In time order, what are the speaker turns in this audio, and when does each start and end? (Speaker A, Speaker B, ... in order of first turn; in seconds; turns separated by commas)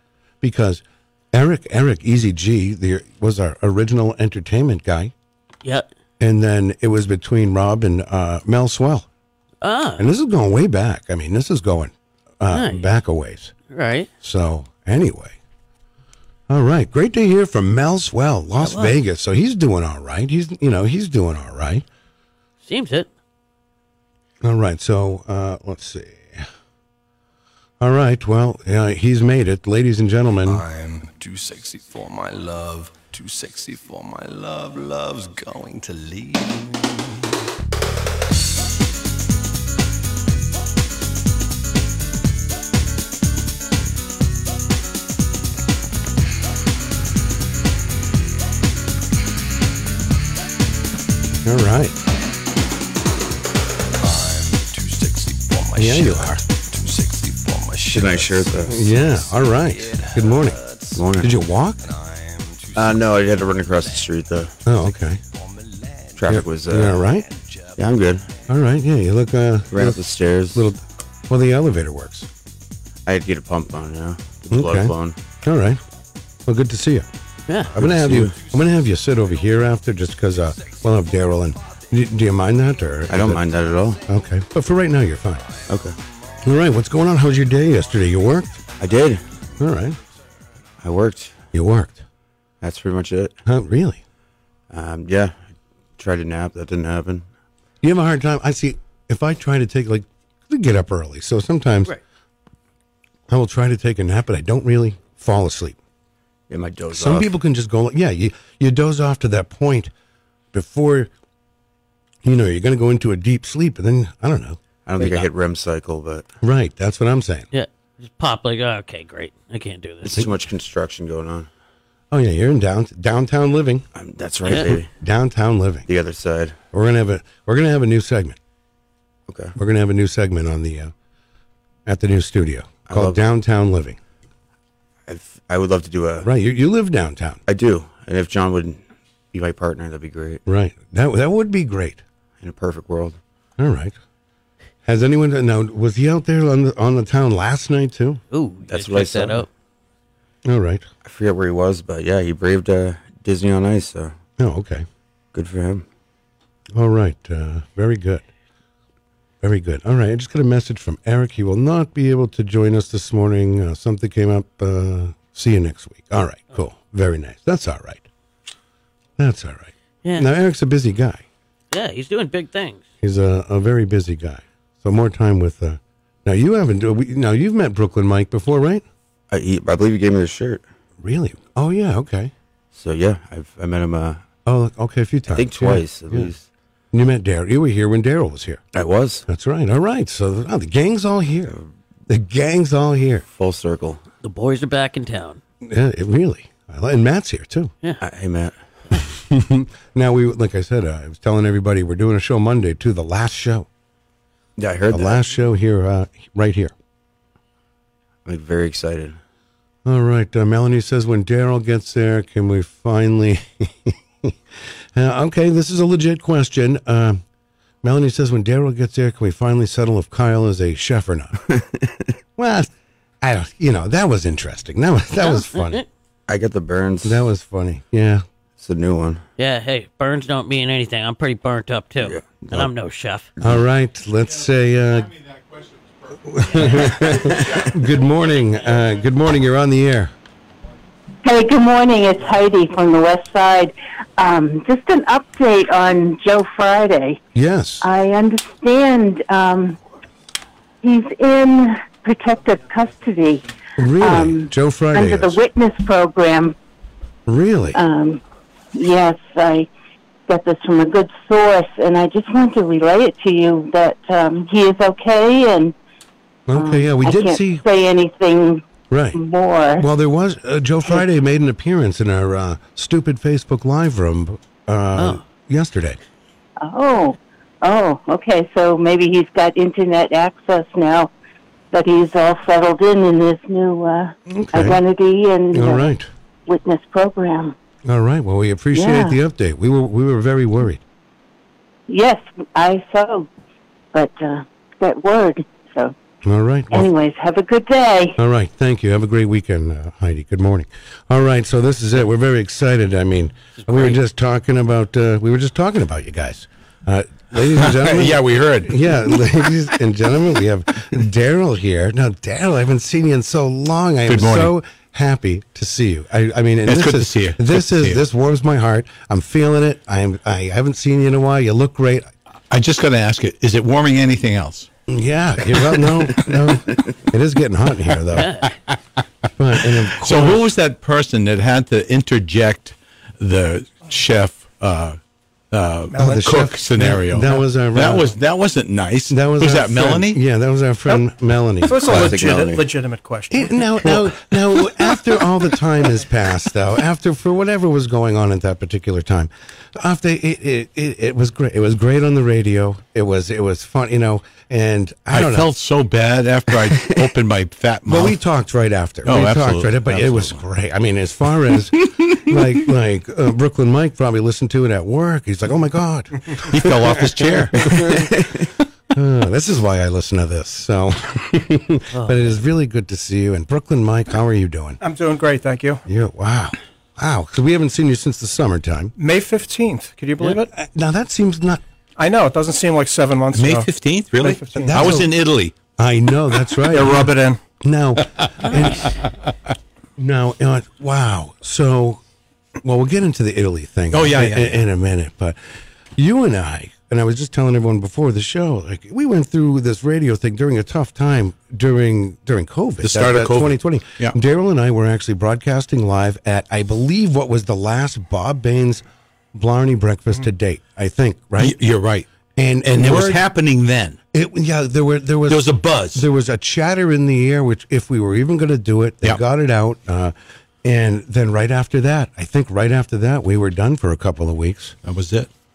Speaker A: 0.4-5.1, Speaker A: 6.2-9.1, Speaker B: 9.6-10.1, Speaker A: 10.0-13.5, Speaker B: 12.5-12.9, Speaker B: 13.7-14.1, Speaker A: 14.2-15.4, Speaker A: 16.5-21.9, Speaker B: 18.6-19.0, Speaker B: 22.6-23.1, Speaker A: 24.4-26.4, Speaker A: 27.8-30.6, Speaker C: 30.4-37.4, Speaker A: 51.5-52.0, Speaker C: 54.0-61.1, Speaker A: 55.8-56.4, Speaker D: 57.9-58.8, Speaker A: 58.6-60.6, Speaker D: 61.0-61.3, Speaker A: 61.2-61.8, Speaker C: 61.8-64.1, Speaker D: 62.8-64.5, Speaker A: 64.7-65.2, Speaker C: 64.9-68.4, Speaker D: 66.2-67.0, Speaker A: 66.3-67.3, Speaker D: 67.8-68.3, Speaker A: 68.5-70.0, Speaker D: 69.7-70.6, Speaker A: 70.5-72.3, Speaker D: 73.1-75.2, Speaker A: 74.5-75.8, Speaker A: 76.5-77.1, Speaker B: 77.5-77.7, Speaker D: 77.8-78.3, Speaker A: 77.8-83.5, Speaker C: 78.6-79.4, Speaker C: 80.5-81.1, Speaker D: 83.1-84.0, Speaker C: 83.6-84.0, Speaker A: 84.1-85.5, Speaker D: 85.7-86.0, Speaker A: 86.4-88.6, Speaker D: 88.8-89.2, Speaker C: 88.8-89.1, Speaker A: 89.6-90.0, Speaker D: 90.8-91.4, Speaker A: 91.5-92.0, Speaker D: 92.6-93.3, Speaker A: 93.5-94.0, Speaker D: 94.7-95.4, Speaker D: 96.0-97.3, Speaker A: 97.8-101.9, Speaker A: 103.3-105.8, Speaker D: 106.5-107.3, Speaker A: 106.9-109.9, Speaker A: 110.5-111.1, Speaker A: 112.2-115.2, Speaker D: 114.9-116.3, Speaker A: 116.4-117.5, Speaker B: 117.5-120.2, Speaker D: 120.0-121.5, Speaker A: 122.1-123.8, Speaker D: 123.9-124.9, Speaker B: 124.5-124.7, Speaker A: 125.0-125.9, Speaker D: 125.9-126.6, Speaker A: 126.7-128.4, Speaker D: 129.3-129.6, Speaker A: 129.6-130.9, Speaker A: 131.9-134.0, Speaker D: 132.9-133.2, Speaker D: 135.1-136.3, Speaker A: 136.2-137.4, Speaker D: 137.5-138.8, Speaker D: 139.3-140.4, Speaker A: 140.5-142.0, Speaker D: 142.4-143.2, Speaker A: 143.6-144.0, Speaker A: 144.8-148.2, Speaker B: 148.3-149.5, Speaker D: 148.7-149.5, Speaker A: 150.4-150.9, Speaker D: 151.0-154.2, Speaker A: 154.4-154.9, Speaker D: 155.3-155.8, Speaker A: 156.7-158.2, Speaker A: 159.4-168.1, Speaker A: 169.2-171.2, Speaker B: 171.7-172.8, Speaker A: 173.0-178.8, Speaker D: 179.3-180.6, Speaker A: 181.0-182.3, Speaker D: 182.7-184.2, Speaker A: 184.5-186.3, Speaker D: 185.3-186.5, Speaker A: 186.9-188.6, Speaker D: 188.7-189.2, Speaker A: 189.3-191.6, Speaker A: 192.1-193.2, Speaker D: 193.3-194.0, Speaker B: 194.2-195.4, Speaker A: 195.6-197.7, Speaker D: 198.0-198.6, Speaker A: 199.3-203.7, Speaker D: 204.6-205.2, Speaker A: 204.9-206.7, Speaker D: 208.2-209.2, Speaker A: 209.8-214.4, Speaker A: 214.9-217.2, Speaker A: 217.8-221.4, Speaker D: 221.5-221.9, Speaker A: 222.4-222.7, Speaker A: 223.2-225.8, Speaker B: 225.2-225.8, Speaker D: 226.3-227.2, Speaker A: 227.0-228.2, Speaker D: 228.6-229.2, Speaker B: 229.4-233.3, Speaker D: 232.0-232.7, Speaker A: 233.4-235.2, Speaker A: 236.2-240.1, Speaker E: 241.2-247.2, Speaker A: 247.3-247.9, Speaker E: 247.8-249.8, Speaker E: 250.8-253.5, Speaker A: 253.8-255.4, Speaker E: 254.0-256.6, Speaker A: 257.3-257.8, Speaker E: 257.7-258.2, Speaker E: 258.7-259.7, Speaker E: 260.3-265.7, Speaker A: 266.5-267.6, Speaker E: 266.5-268.6, Speaker A: 268.9-269.2, Speaker E: 269.1-269.9, Speaker A: 269.8-276.0, Speaker B: 275.0-275.2, Speaker E: 276.6-281.1, Speaker E: 281.7-285.9, Speaker A: 284.3-284.8, Speaker A: 285.5-286.1, Speaker E: 286.5-287.6, Speaker A: 287.9-290.8, Speaker E: 288.8-289.2, Speaker E: 291.9-293.3, Speaker E: 293.9-295.9, Speaker A: 296.2-296.9, Speaker E: 296.7-298.2, Speaker A: 298.2-322.1, Speaker B: 303.6-304.0, Speaker F: 307.6-309.1, Speaker F: 314.1-314.5, Speaker F: 316.7-318.0, Speaker F: 322.5-324.7, Speaker A: 324.9-328.4, Speaker B: 328.1-328.5, Speaker A: 329.4-330.4, Speaker F: 329.9-335.0, Speaker F: 335.5-340.2, Speaker G: 335.9-336.5, Speaker A: 336.0-338.1, Speaker A: 339.1-342.1, Speaker G: 341.6-344.0, Speaker D: 341.9-342.7, Speaker A: 343.3-355.5, Speaker F: 355.1-358.2, Speaker A: 357.9-368.1, Speaker F: 359.1-360.4, Speaker F: 366.4-368.0, Speaker A: 368.9-374.8, Speaker B: 371.9-372.2, Speaker G: 374.8-375.8, Speaker A: 375.9-378.9, Speaker G: 379.0-380.5, Speaker A: 380.2-381.6, Speaker G: 382.0-384.9, Speaker F: 383.3-385.6, Speaker A: 384.7-385.1, Speaker A: 385.8-387.1, Speaker G: 386.6-387.4, Speaker A: 387.6-389.0, Speaker A: 390.0-392.0, Speaker A: 392.6-395.4, Speaker F: 393.9-394.6, Speaker A: 396.0-411.6, Speaker F: 402.8-404.1, Speaker F: 411.4-412.1, Speaker A: 412.4-413.2, Speaker F: 412.7-414.0, Speaker A: 414.1-420.1, Speaker F: 415.3-416.0, Speaker A: 420.6-424.8, Speaker F: 424.8-425.3